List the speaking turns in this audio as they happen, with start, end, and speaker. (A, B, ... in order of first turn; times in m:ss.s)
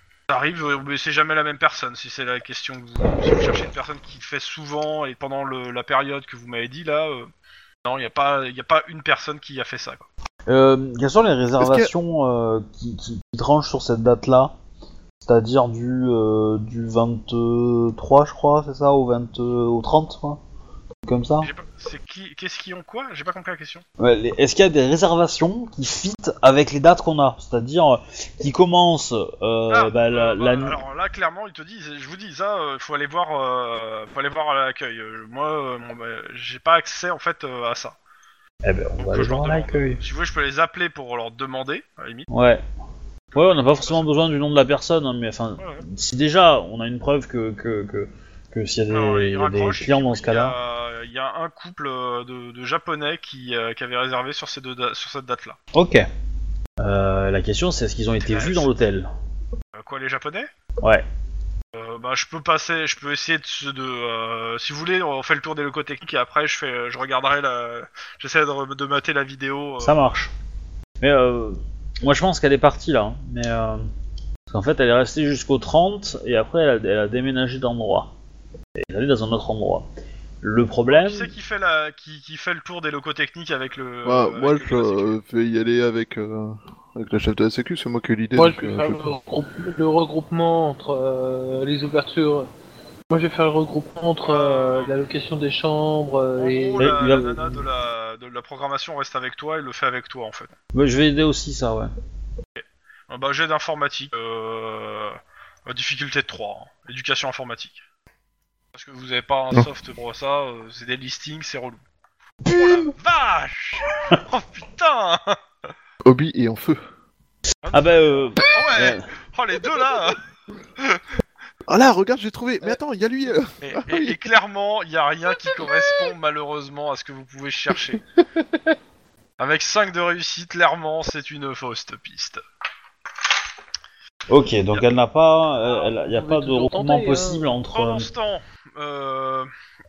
0:00.3-0:07.3 A
0:07.8-0:10.1 A
0:10.5-0:14.6 B
0:11.6-0:11.9 C
0:15.2-0:20.4 B
0:21.1-0:21.5 B
0:21.4-0:23.8 A
0:24.0-0:30.8 B
0:29.7-0:38.0 A
0:38.6-0:40.0 B
0:39.0-0:42.3 A
0:42.3-0:42.6 B
0:43.3-0:44.1 A
0:43.4-0:50.6 B
0:45.6-0:45.8 A
0:48.9-0:55.6 A
0:55.7-0:56.1 B
0:56.8-0:59.1 B
0:58.2-0:58.7 A
0:59.8-1:00.5 A
1:01.7-1:10.0 A
1:09.8-1:10.3 B
1:11.0-1:13.8 B
1:14.5-1:18.1 B
1:18.8-1:19.9 B
1:20.4-1:21.3 B
1:20.9-1:25.2 A
1:24.0-1:29.1 C
1:28.4-1:32.5 D
1:33.1-1:37.0 D
1:34.3-1:34.9 A
1:36.4-1:40.5 A
1:36.8-1:37.4 B
1:40.7-1:41.9 B
1:42.6-1:47.8 A
1:48.7-1:51.8 A
1:52.4-1:52.9 B
1:52.4-1:55.4 A
1:56.0-1:56.8 C
1:57.6-2:00.2 A
1:57.7-1:59.0 B
2:01.7-2:04.2 C
2:03.6-2:08.0 A
2:09.4-2:12.4 A
2:14.3-2:18.1 B
2:15.8-2:17.5 D
2:17.7-2:19.5 A